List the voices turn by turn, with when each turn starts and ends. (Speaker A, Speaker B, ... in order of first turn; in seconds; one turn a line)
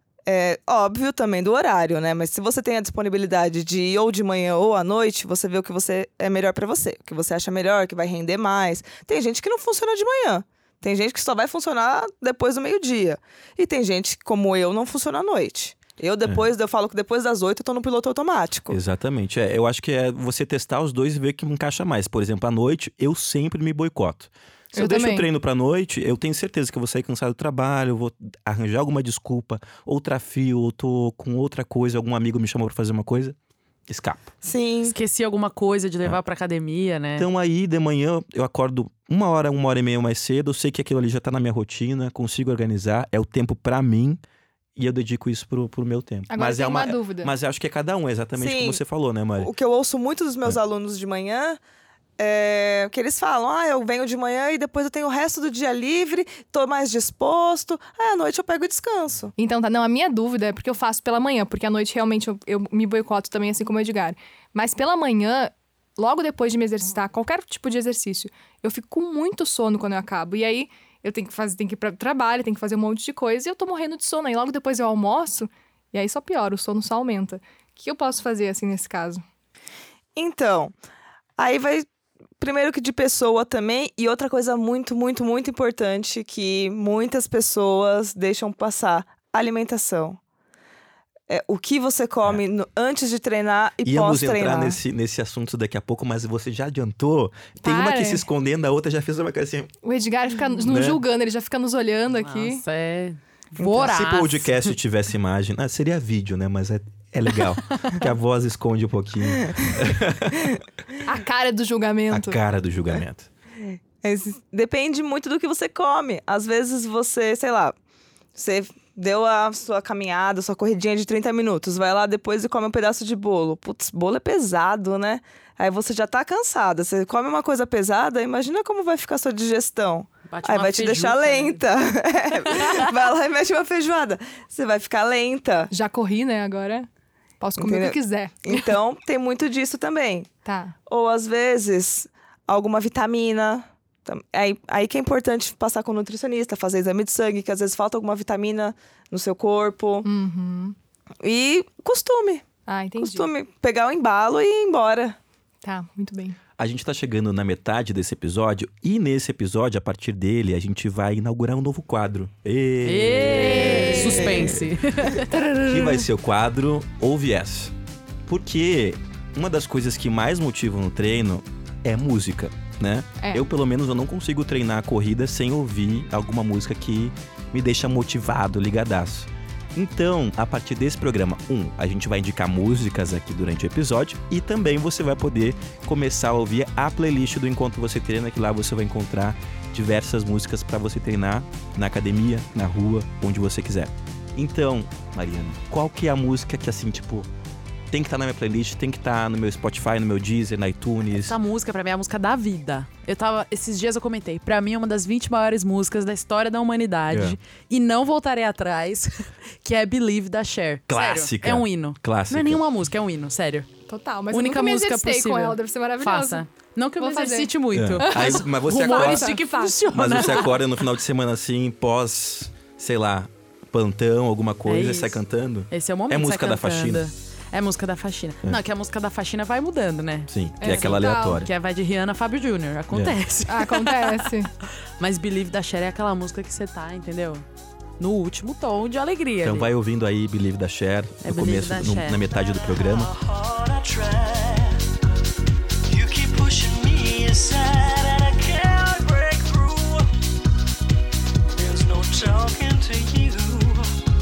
Speaker A: 0.2-18.8
Speaker B: 18.7-33.4
Speaker C: 24.7-25.3
Speaker B: 33.9-34.3
Speaker A: 34.4-34.9
Speaker D: 34.8-37.3
Speaker B: 37.2-44.2
Speaker B: 44.8-49.5
Speaker C: 46.3-47.3
Speaker A: 48.4-48.8
Speaker A: 49.4-51.6
Speaker A: 52.2-59.3
Speaker C: 59.4-79.2
Speaker A: 80.2-80.7
Speaker A: 81.4-81.9
Speaker A: 82.4-90.2
Speaker A: 91.3-94.8
Speaker B: 93.8-99.7
Speaker C: 97.6-98.2
Speaker C: 99.8-102.6
Speaker B: 100.6-101.0
Speaker D: 102.1-104.7
Speaker B: 103.6-110.5
Speaker C: 111.0-112.4
Speaker B: 112.1-113.3
Speaker A: 114.0-117.7
Speaker A: 118.3-135.7
Speaker D: 130.3-131.6
Speaker C: 135.7-136.9
Speaker C: 137.4-138.7
Speaker A: 137.6-140.3
Speaker C: 140.4-140.7
Speaker A: 140.9-150.1
Speaker C: 150.0-150.8
Speaker A: 151.2-152.4
Speaker C: 152.7-153.3
Speaker A: 153.0-155.2
Speaker C: 155.6-156.4
Speaker B: 156.6-164.6
Speaker D: 162.8-165.3
Speaker C: 163.5-164.3
Speaker A: 163.8-164.5
Speaker C: 165.2-166.1
Speaker B: 165.6-167.7
Speaker B: 168.2-197.3
Speaker C: 173.2-173.4
Speaker B: 197.9-201.4
Speaker D: 201.2-213.7
Speaker B: 207.1-207.4
Speaker B: 210.9-212.6
Speaker C: 213.9-216.4
Speaker D: 214.3-220.6
Speaker C: 217.0-220.4
Speaker B: 217.7-219.3
Speaker B: 219.9-227.1
Speaker D: 224.7-234.3
Speaker B: 230.3-231.5
Speaker C: 230.6-231.4
Speaker C: 233.5-234.5
Speaker D: 235.0-237.4
Speaker D: 238.0-239.7
Speaker B: 239.4-243.1
Speaker D: 241.2-242.2
Speaker E: 242.7-244.8
Speaker E: 245.9-250.1
Speaker E: 251.5-253.9